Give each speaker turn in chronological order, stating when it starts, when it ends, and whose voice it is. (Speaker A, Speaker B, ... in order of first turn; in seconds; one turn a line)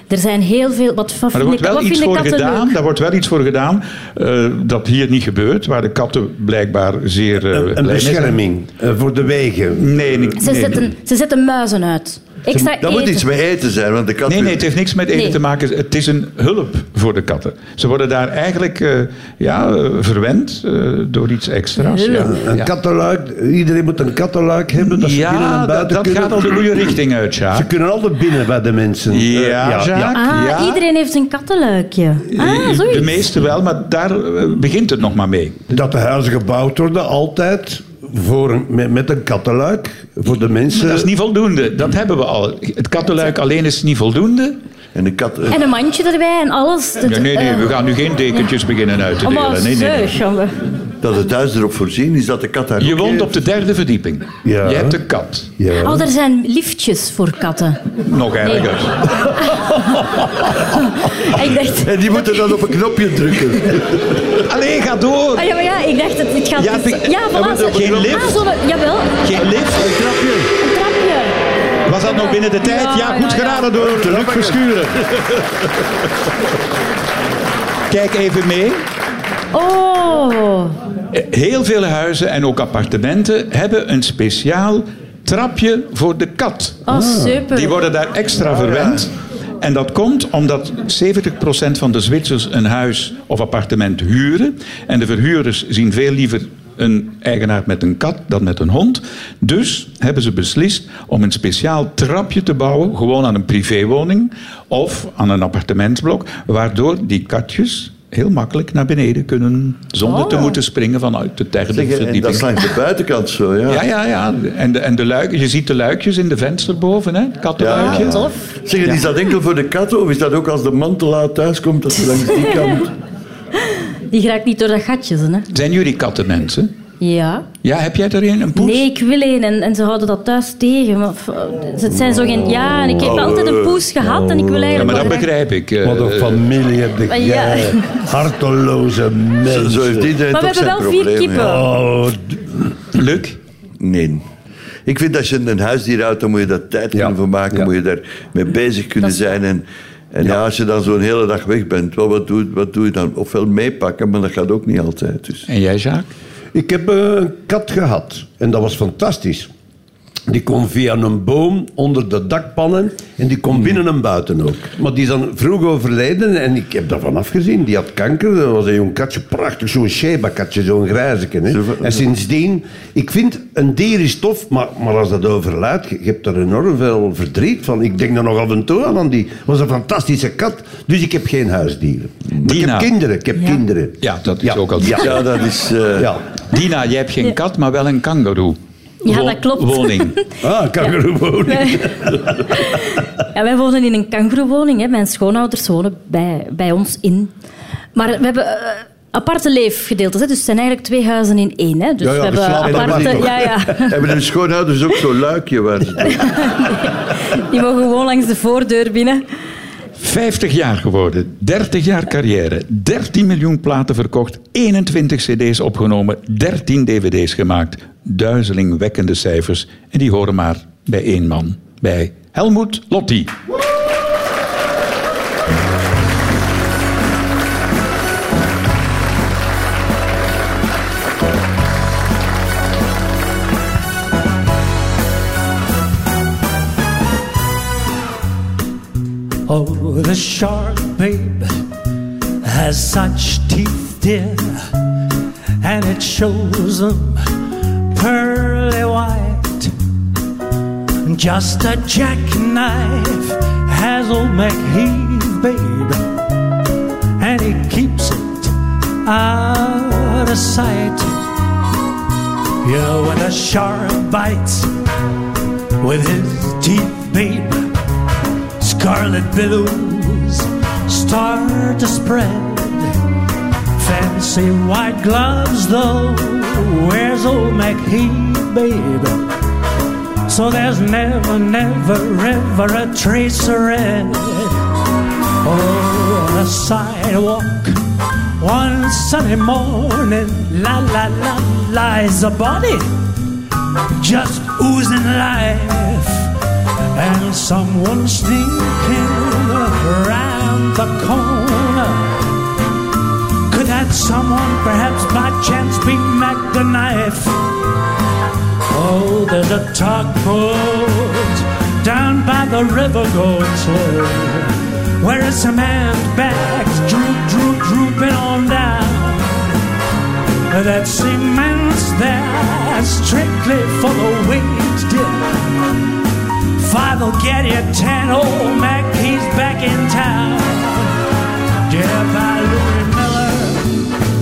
Speaker A: 0.1-2.7
Speaker B: 1.3-8.4
Speaker C: 7.4-10.4
Speaker B: 9.8-10.9
Speaker A: 10.4-13.2
Speaker D: 12.8-14.6
Speaker B: 14.3-22.7
Speaker A: 15.1-15.4
Speaker A: 21.8-22.3
Speaker C: 22.1-26.7
Speaker B: 24.8-27.7
Speaker C: 27.5-30.2
Speaker B: 29.1-30.8
Speaker A: 30.1-33.1
Speaker B: 32.3-35.6
Speaker C: 35.7-41.1
Speaker B: 40.7-44.6
Speaker D: 44.9-45.6
Speaker A: 45.5-47.7
Speaker B: 47.0-50.2
Speaker A: 49.2-50.6
Speaker D: 51.0-53.3
Speaker B: 52.8-55.5
Speaker C: 54.4-55.0
Speaker C: 55.6-56.1
Speaker A: 55.8-57.8
Speaker B: 58.0-59.1
Speaker A: 58.4-58.7
Speaker A: 59.3-62.5
Speaker D: 61.8-64.2
Speaker B: 64.4-65.5
Speaker A: 65.3-69.5
Speaker B: 66.6-68.4
Speaker D: 67.3-68.2
Speaker B: 69.2-69.9
Speaker D: 69.8-70.4
Speaker A: 70.6-71.4
Speaker B: 71.9-75.1
Speaker A: 72.0-73.7
Speaker D: 73.8-74.6
Speaker B: 77.9-78.8
Speaker A: 79.5-80.8
Speaker B: 81.1-86.9
Speaker A: 86.9-87.7
Speaker C: 86.9-87.4
Speaker B: 87.5-112.5
Speaker D: 88.6-89.0
Speaker A: 110.0-110.6
Speaker D: 111.7-113.8
Speaker B: 113.7-118.2
Speaker D: 117.6-122.9
Speaker A: 117.7-118.4
Speaker A: 122.2-122.8
Speaker A: 123.6-125.5
Speaker B: 125.5-126.7
Speaker A: 127.0-127.5
Speaker B: 127.6-128.8
Speaker A: 128.6-135.2
Speaker D: 132.9-133.9
Speaker C: 134.1-134.9
Speaker B: 134.7-136.5
Speaker C: 135.8-140.1
Speaker A: 137.1-138.1
Speaker D: 139.5-141.6
Speaker A: 140.3-141.7
Speaker C: 141.4-142.7
Speaker B: 142.9-143.4
Speaker D: 143.8-144.2
Speaker D: 144.9-155.4
Speaker C: 146.9-147.7
Speaker A: 149.0-149.3
Speaker B: 155.5-156.1
Speaker C: 156.5-159.5
Speaker C: 160.3-185.2
Speaker D: 171.5-172.0
Speaker B: 182.4-182.9
Speaker B: 184.0-185.2
Speaker D: 184.9-186.1
Speaker C: 185.9-186.2
Speaker B: 186.5-190.2
Speaker A: 189.1-190.2
Speaker C: 190.4-192.4
Speaker A: 191.5-197.3
Speaker A: 197.9-204.0
Speaker C: 202.0-203.5
Speaker D: 202.5-206.2
Speaker A: 206.0-209.2
Speaker B: 210.0-223.3
Speaker E: 239.5-241.5
Speaker E: 242.4-244.7
Speaker E: 245.6-247.3
Speaker E: 247.9-249.7
Speaker E: 251.0-256.1
Speaker E: 257.2-261.2
Speaker E: 262.6-264.7
Speaker E: 265.8-267.7
Speaker E: 268.6-272.9
Speaker E: 273.8-279.3
Speaker E: 280.3-284.6
Speaker E: 285.4-287.8
Speaker E: 288.4-292.9
Speaker E: 294.0-296.3
Speaker E: 296.9-302.1
Speaker E: 303.5-307.4
Speaker E: 308.7-319.5
Speaker E: 320.5-325.3
Speaker E: 326.6-330.9
Speaker E: 331.7-333.7